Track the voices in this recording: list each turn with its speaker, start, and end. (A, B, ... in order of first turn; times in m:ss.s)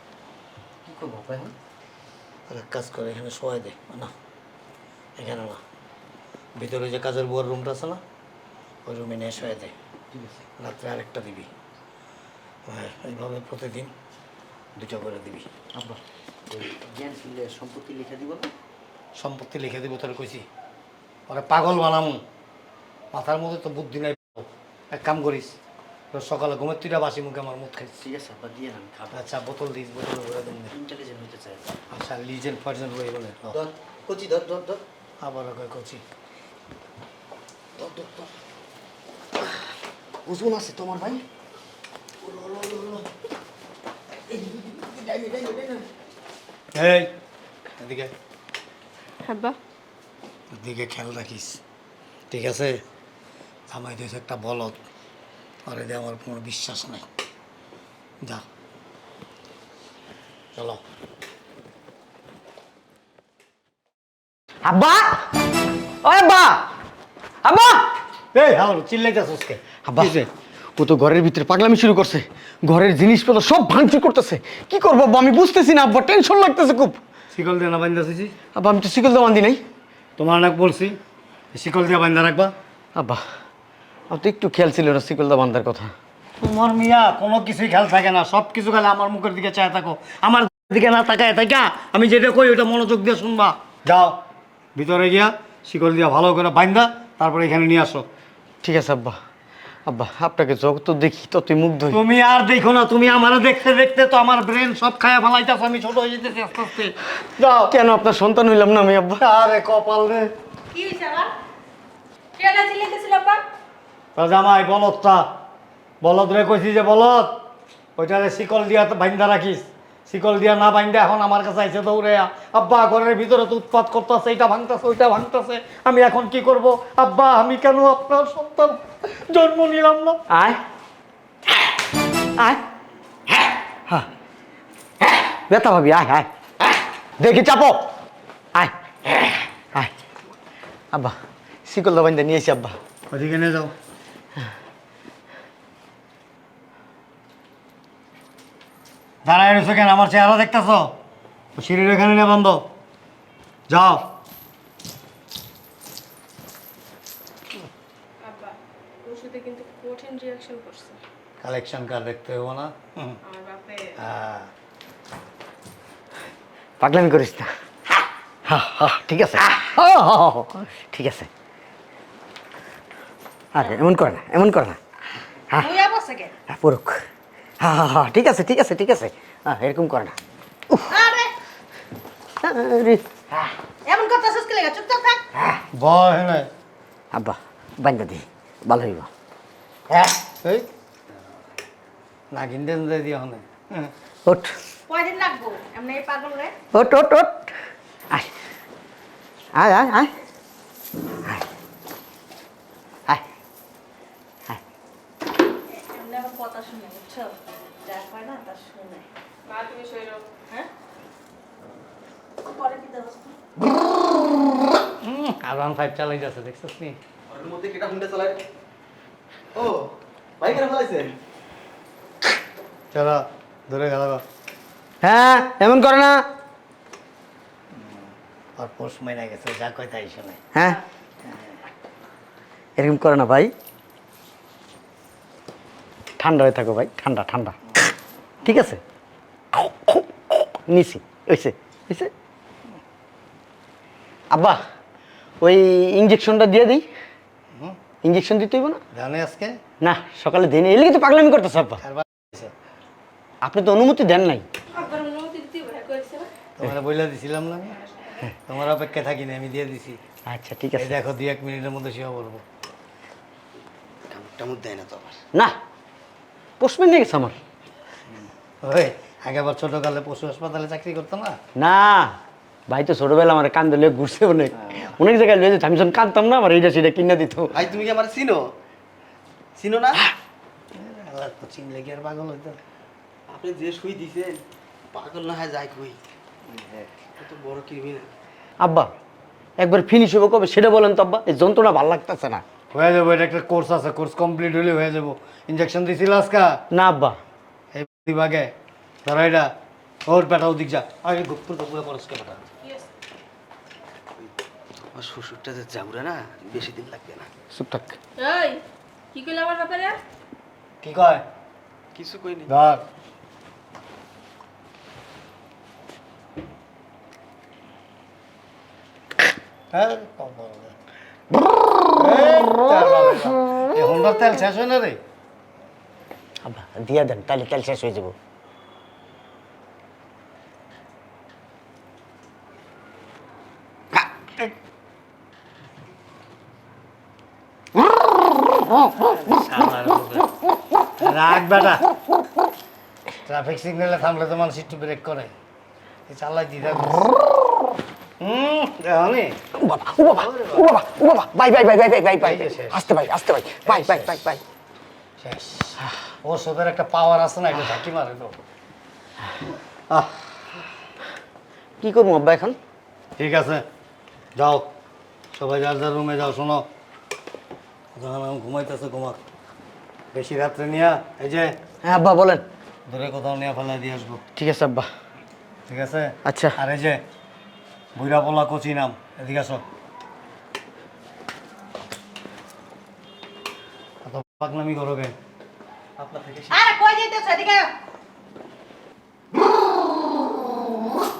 0:00.8-0:01.5 A
0:02.5-0:04.1 B
0:05.2-0:05.6 B
0:06.6-0:08.0 B
0:08.8-0:09.7 B
0:10.6-0:11.5 B
0:12.7-0:13.9 B
0:14.8-0:15.5 B
0:16.5-0:18.5 A
0:19.2-0:20.5 B
0:21.3-0:22.2 B
0:23.1-0:25.6 B
0:26.1-0:28.0 B
0:28.0-0:29.2 A
0:29.1-0:30.7 B
0:30.7-0:31.7 A
0:31.9-0:33.6 B
0:33.5-0:34.8 A
0:35.2-0:36.0 B
0:37.8-0:38.3 A
0:40.2-0:41.2 A
0:42.2-0:43.0 A
0:44.3-0:45.8 A
0:46.7-0:47.1 B
0:47.8-0:48.1 B
0:49.2-0:49.6 C
0:50.5-0:51.6 B
0:52.3-0:52.8 B
0:53.7-0:54.8 B
0:55.6-0:57.0 B
1:00.5-1:00.8 B
1:04.6-1:05.3 A
1:06.0-1:06.7 A
1:07.4-1:07.9 A
1:08.3-1:10.3 B
1:09.8-1:10.2 A
1:10.8-1:17.0 A
1:17.3-1:18.3 B
1:18.5-1:19.6 A
1:20.2-1:21.0 B
1:21.5-1:22.5 B
1:22.9-1:23.2 A
1:24.1-1:25.9 A
1:26.4-1:34.2 B
1:34.7-1:38.1 B
1:38.6-1:39.2 A
1:39.8-1:42.0 A
1:41.9-1:47.8 B
1:47.7-1:49.2 A
1:49.2-1:50.3 B
1:50.7-1:51.3 D
1:52.4-1:53.4 C
1:54.2-1:55.3 B
1:56.0-1:57.4 B
1:58.0-2:10.2 B
2:10.3-2:10.6 A
2:12.4-2:12.6 A
2:13.3-2:14.1 A
2:15.0-2:17.9 A
2:18.5-2:19.9 A
2:20.9-2:22.8 A
2:23.1-2:23.7 B
2:29.2-2:31.0 B
2:31.6-2:32.6 B
2:33.7-2:34.1 B
2:38.2-2:41.0 C
2:41.4-2:43.2 B
2:43.2-2:43.9 C
2:44.0-2:44.5 B
2:46.8-2:51.3 A
2:53.5-2:54.8 A
2:55.6-2:56.3 D
2:56.5-2:57.0 A
2:57.6-3:00.2 A
3:00.9-3:01.3 D
3:02.4-3:03.2 A
3:03.8-3:05.2 D
3:05.7-3:06.5 B
3:07.1-3:09.1 A
3:10.4-3:10.7 B
3:12.3-3:13.9 B
3:14.3-3:14.5 A
3:14.9-3:16.5 D
3:16.7-3:17.5 A
3:19.5-3:20.1 A
3:25.7-3:27.3 D
3:27.8-3:29.1 D
3:29.5-3:30.2 C
3:32.4-3:33.4 D
3:35.0-3:37.0 B
3:37.3-3:38.4 E
3:39.5-3:41.2 E
3:42.9-3:44.2 B
3:45.0-3:46.2 A
3:48.6-3:50.4 B
3:50.5-3:50.8 A
3:51.2-3:51.6 B
3:52.8-3:53.5 A
3:56.2-3:57.9 A
3:58.4-3:58.8 A
3:59.5-4:02.1 A
4:04.3-4:04.6 A
4:05.4-4:06.8 A
4:08.0-4:08.8 A
4:08.9-4:09.6 B
4:09.8-4:11.8 A
4:11.8-4:12.5 B
4:13.4-4:14.4 A
4:14.7-4:16.3 C
4:16.6-4:17.8 B
4:18.4-4:20.0 B
4:20.3-4:20.9 A
4:20.8-4:22.4 B
4:24.1-4:25.2 E
4:26.6-4:27.4 A
4:28.6-4:31.4 B
4:31.6-4:32.2 A
4:32.7-4:37.5 A
4:37.5-4:38.5 E
4:39.6-4:40.0 E
4:40.7-4:42.6 B
4:43.3-4:44.4 E
4:44.9-4:46.0 E
4:47.1-4:48.1 E
4:48.6-4:48.9 A
4:49.6-4:52.4 A
4:52.7-4:56.6 B
4:56.7-4:57.2 A
4:57.7-4:58.5 B
4:59.0-4:59.5 B
5:00.1-5:02.4 B
5:02.6-5:02.9 C
5:04.9-5:07.3 E
5:07.5-5:08.0 A
5:08.2-5:08.6 C
5:09.1-5:10.0 C
5:10.8-5:11.2 B
5:11.9-5:12.5 E
5:12.5-5:12.8 B
5:19.7-5:20.7 B
5:22.0-5:25.0 B
5:26.4-5:28.1 A
5:39.0-5:40.3 B
5:41.0-5:41.8 B
5:43.2-5:45.3 B
5:46.1-5:47.1 B
5:48.2-5:49.4 B
5:49.5-5:54.4 A
5:50.1-5:50.8 B
5:52.2-5:52.8 B
5:53.6-5:54.2 B
5:55.2-5:58.3 B
5:59.9-6:00.3 B
6:01.8-6:02.6 A
6:03.2-6:03.6 B
6:04.4-6:04.7 B
6:05.3-6:06.7 B
6:07.9-6:09.2 B
6:10.1-6:11.6 B
6:11.8-6:12.4 A
6:12.9-6:14.2 B
6:14.4-6:14.9 A
6:15.7-6:17.0 B
6:16.2-6:16.6 A
6:18.0-6:19.6 B
6:24.0-6:25.2 B
6:26.0-6:26.6 E
6:26.5-6:27.7 D